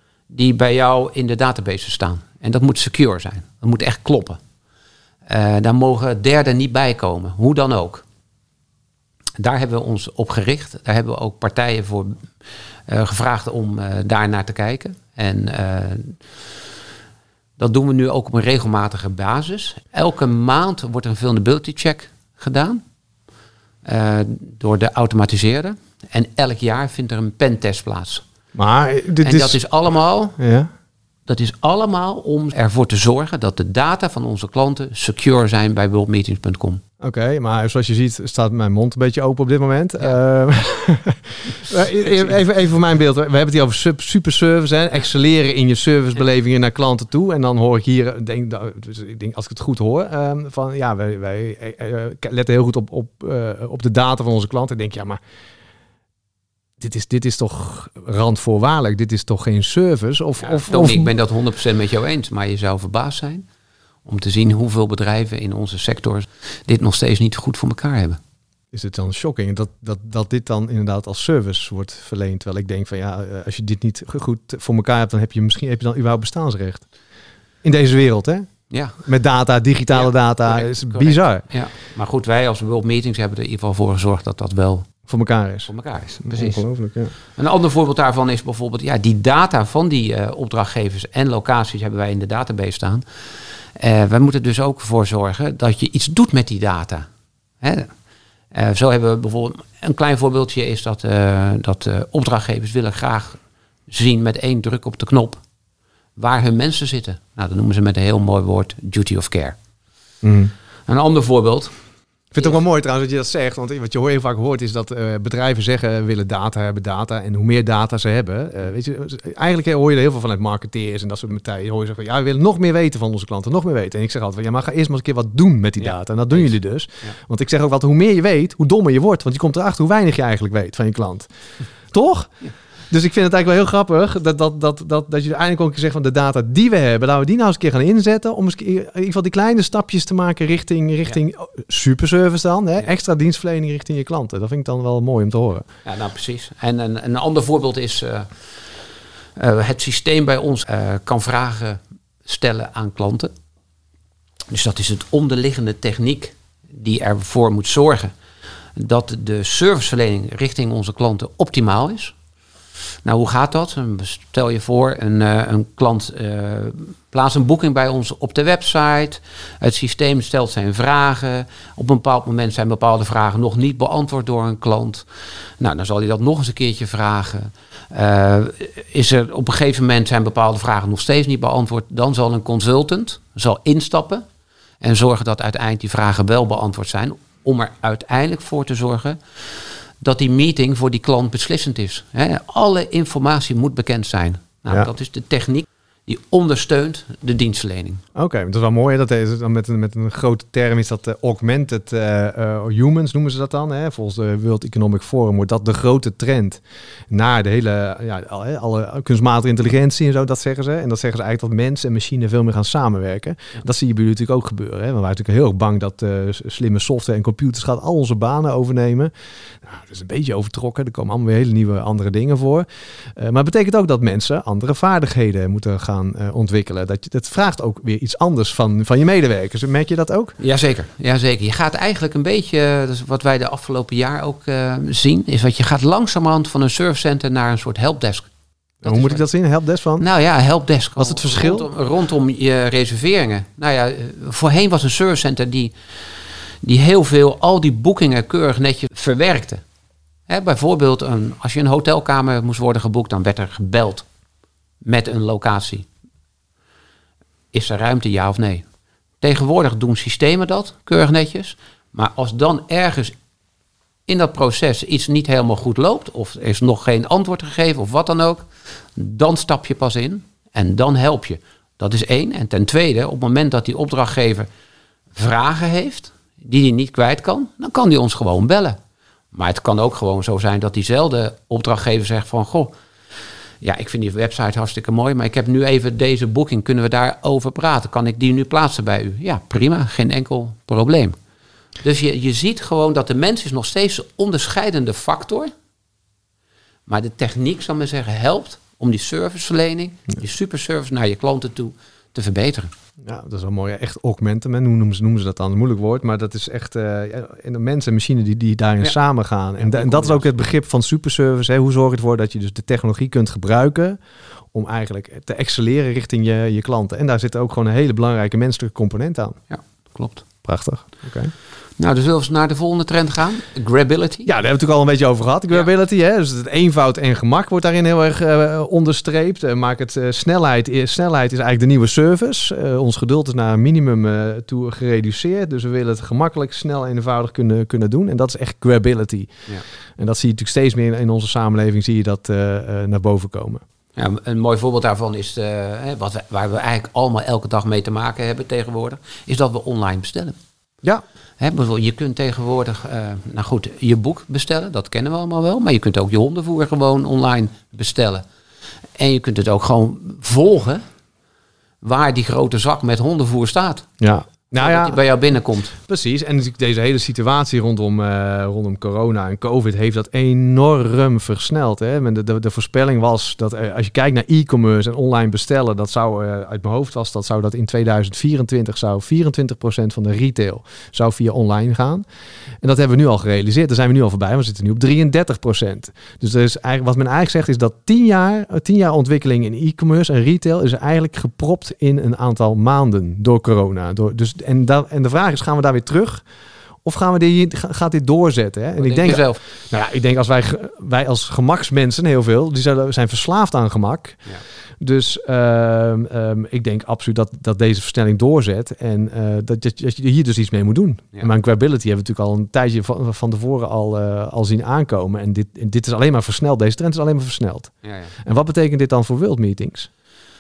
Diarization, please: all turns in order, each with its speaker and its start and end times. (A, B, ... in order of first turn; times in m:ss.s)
0:00.3-0:04.4 A
0:05.3-0:08.0 A
0:09.4-0:12.3 A
0:12.9-0:16.2 A
0:17.6-0:22.8 A
0:23.8-0:28.2 A
0:28.6-0:29.6 B
0:29.2-0:30.4 A
0:30.4-0:30.7 B
0:31.3-0:36.8 A
0:37.0-0:55.2 B
0:42.0-0:42.3 A
0:56.8-1:01.1 B
1:00.4-1:03.5 A
1:04.0-1:08.2 A
1:08.7-1:16.9 B
1:17.6-1:21.4 B
1:18.7-1:19.0 A
1:19.9-1:24.9 A
1:25.1-1:27.1 B
1:25.7-1:26.6 A
1:27.3-1:33.0 A
1:33.8-1:37.1 A
1:37.6-1:37.9 A
1:38.5-1:45.4 A
1:46.2-1:49.6 A
1:50.2-1:50.5 B
1:50.9-1:51.7 A
1:52.3-2:11.3 B
2:05.8-2:07.2 A
2:11.9-2:12.3 B
2:12.9-2:25.6 B
2:25.8-2:28.5 A
2:29.4-2:33.3 A
2:34.5-2:38.1 A
2:38.8-2:42.2 A
2:43.0-3:04.2 A
3:04.8-3:09.2 A
3:10.0-3:18.0 A
3:18.2-3:39.1 B
3:39.6-3:50.4 B
3:50.4-3:58.3 A
3:58.8-3:59.2 A
3:58.8-4:00.0 B
4:00.0-4:09.6 A
4:01.0-4:01.7 B
4:10.3-4:14.1 A
4:14.8-4:15.9 A
4:17.5-4:18.7 A
4:19.2-4:23.2 A
4:24.1-4:28.4 A
4:29.0-4:34.5 A
4:35.2-4:38.8 A
4:39.3-4:42.7 A
4:43.6-4:51.2 A
4:51.8-4:55.5 A
4:56.9-5:02.7 A
5:03.0-5:14.0 B
5:09.6-5:10.5 A
5:14.5-5:19.4 B
5:19.5-5:20.3 A
5:20.4-5:21.3 B
5:21.8-5:24.3 A
5:24.2-5:39.3 B
5:40.0-5:43.6 B
5:44.0-5:50.4 A
5:51.4-5:58.2 A
5:59.0-6:00.8 A
6:01.8-6:03.9 A
6:04.0-6:05.0 B
6:04.6-6:05.8 A
6:05.9-6:22.0 B
6:22.6-6:36.2 B
6:36.8-6:44.3 B
6:38.8-6:39.4 A
6:44.8-6:59.9 B
6:57.8-6:58.2 A